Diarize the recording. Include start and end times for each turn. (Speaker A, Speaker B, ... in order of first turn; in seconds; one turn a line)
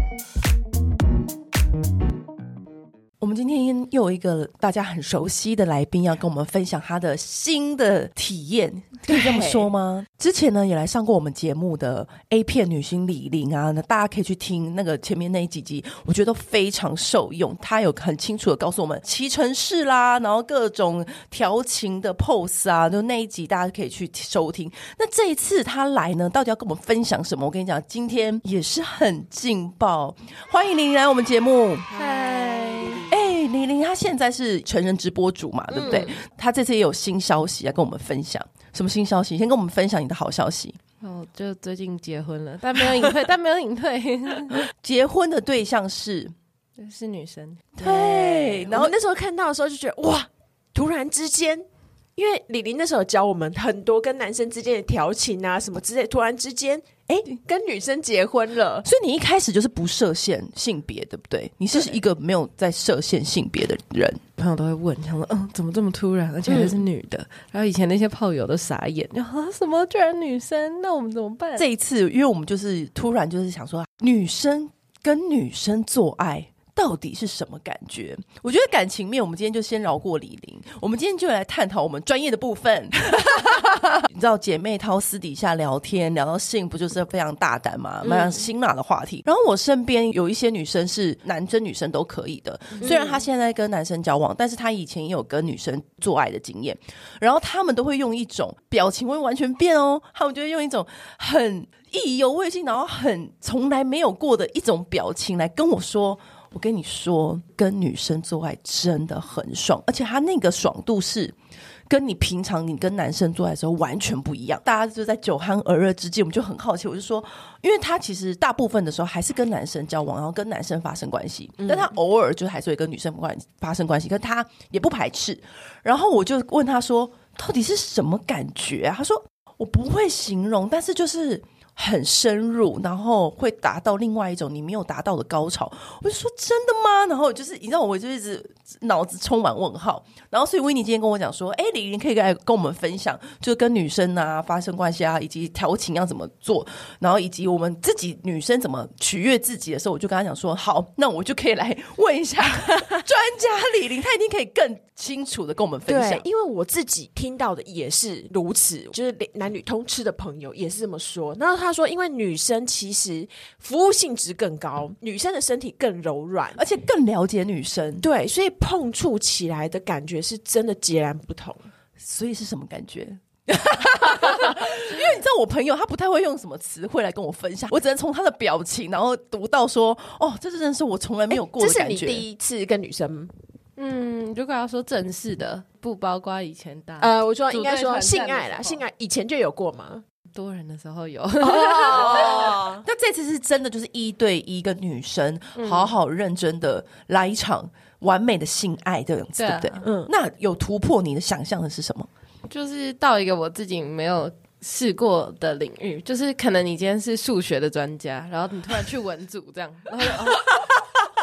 Speaker A: 3.2-31.9
Speaker B: 9.1-9.7
Speaker C: 31.9-33.1
Speaker A: 33.1-40.8
Speaker B: 35.7-36.1
Speaker C: 41.0-44.6
Speaker A: 44.7-46.3
Speaker C: 46.8-47.8
Speaker A: 47.8-48.9
Speaker B: 47.8-58.8
Speaker A: 57.1-57.4
Speaker A: 58.8-64.2
Speaker C: 64.4-71.7
Speaker B: 66.5-66.8
Speaker A: 71.5-111.3
Speaker B: 88.0-88.4
Speaker B: 92.8-93.2
Speaker A: 111.9-156.2
Speaker B: 121.6-121.9
Speaker B: 152.6-153.0
Speaker B: 155.8-166.6
Speaker A: 166.6-168.0
Speaker B: 168.0-171.7
Speaker A: 172.0-182.2
Speaker B: 181.3-183.3
Speaker C: 183.8-188.8
Speaker B: 187.0-190.0
Speaker C: 190.3-192.5
Speaker B: 191.4-192.8
Speaker A: 191.8-202.1
Speaker C: 195.6-195.9
Speaker C: 199.4-199.8
Speaker B: 199.8-200.1
Speaker C: 202.5-210.6